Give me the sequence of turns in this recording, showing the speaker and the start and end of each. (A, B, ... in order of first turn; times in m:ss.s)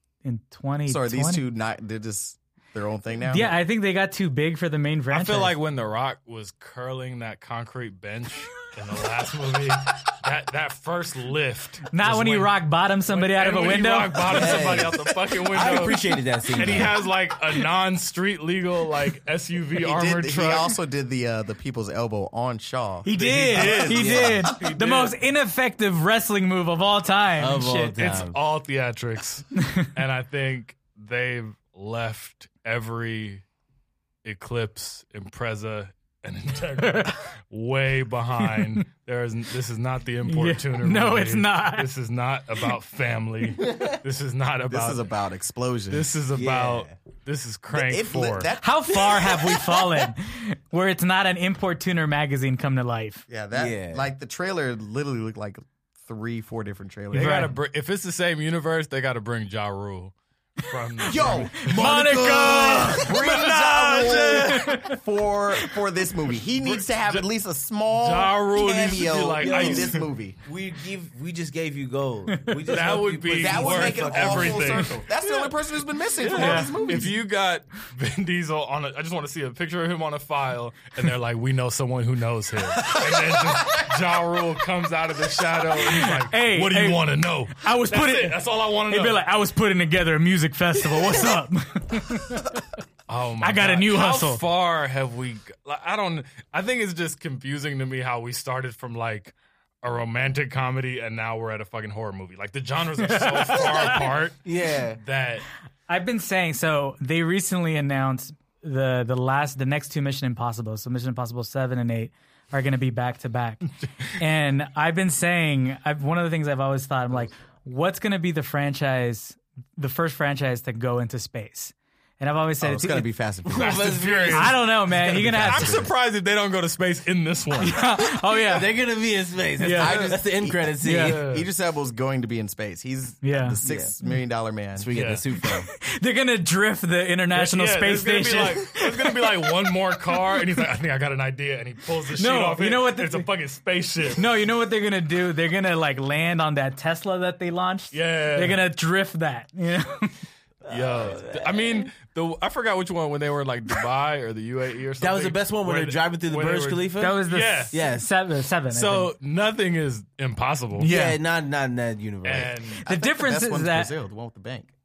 0:00.2-0:01.4 A
0:00.9-0:03.6 B
0:03.2-0:05.5 A
0:05.1-0:20.8 C
0:11.9-0:14.8 A
0:14.2-0:17.0 D
0:19.8-0:24.3 B
0:23.0-0:28.0 A
0:23.1-0:25.2 C
0:23.6-0:24.5 D
0:27.4-0:28.4 D
0:28.0-0:33.4 C
0:29.6-0:29.9 A
0:34.2-0:45.0 C
0:36.8-0:37.1 A
0:38.4-0:38.8 A
0:40.3-0:41.9 A
0:43.6-0:44.0 D
0:44.7-0:46.1 B
0:45.9-0:48.5 C
0:46.3-0:47.0 D
0:47.7-0:49.4 B
0:48.6-0:53.2 A
0:49.0-0:49.5 D
0:53.3-0:57.5 B
0:53.5-0:54.1 D
0:57.1-1:04.8 C
0:57.1-0:57.5 A
1:00.6-1:05.0 A
1:01.1-1:10.4 B
1:02.0-1:02.8 D
1:06.4-1:07.3 C
1:07.9-1:10.0 C
1:09.4-1:14.8 D
1:12.3-1:12.6 A
1:12.7-1:15.6 C
1:13.4-1:17.1 B
1:16.2-1:29.2 C
1:16.3-1:17.1 A
1:23.1-1:23.9 B
1:25.8-1:32.6 A
1:33.1-1:45.4 C
1:33.4-1:34.4 A
1:43.0-1:44.1 A
1:43.6-1:45.0 D
1:45.9-2:03.1 A
2:02.6-2:04.0 B
2:03.4-2:05.6 D
2:03.5-2:07.8 C
2:04.3-2:05.9 A
2:05.0-2:05.9 B
2:07.6-2:08.8 A
2:08.0-2:11.2 D
2:09.6-2:10.0 A
2:09.7-2:14.9 B
2:10.8-2:11.2 A
2:11.0-2:11.5 C
2:13.2-2:14.2 A
2:13.6-2:13.9 D
2:14.7-2:15.7 D
2:14.9-2:15.2 C
2:15.4-2:19.5 A
2:17.3-2:24.2 C
2:20.1-2:20.6 A
2:22.2-2:23.3 A
2:24.2-2:30.2 A
2:27.9-2:28.6 C
2:30.6-2:31.9 D
2:30.7-2:37.8 C
2:35.0-2:38.1 D
2:37.0-2:39.1 A
2:38.7-2:40.9 C
2:40.8-2:41.2 A
2:40.8-2:42.7 D
2:42.2-2:42.8 C
2:42.8-2:43.9 A
2:42.8-2:44.7 B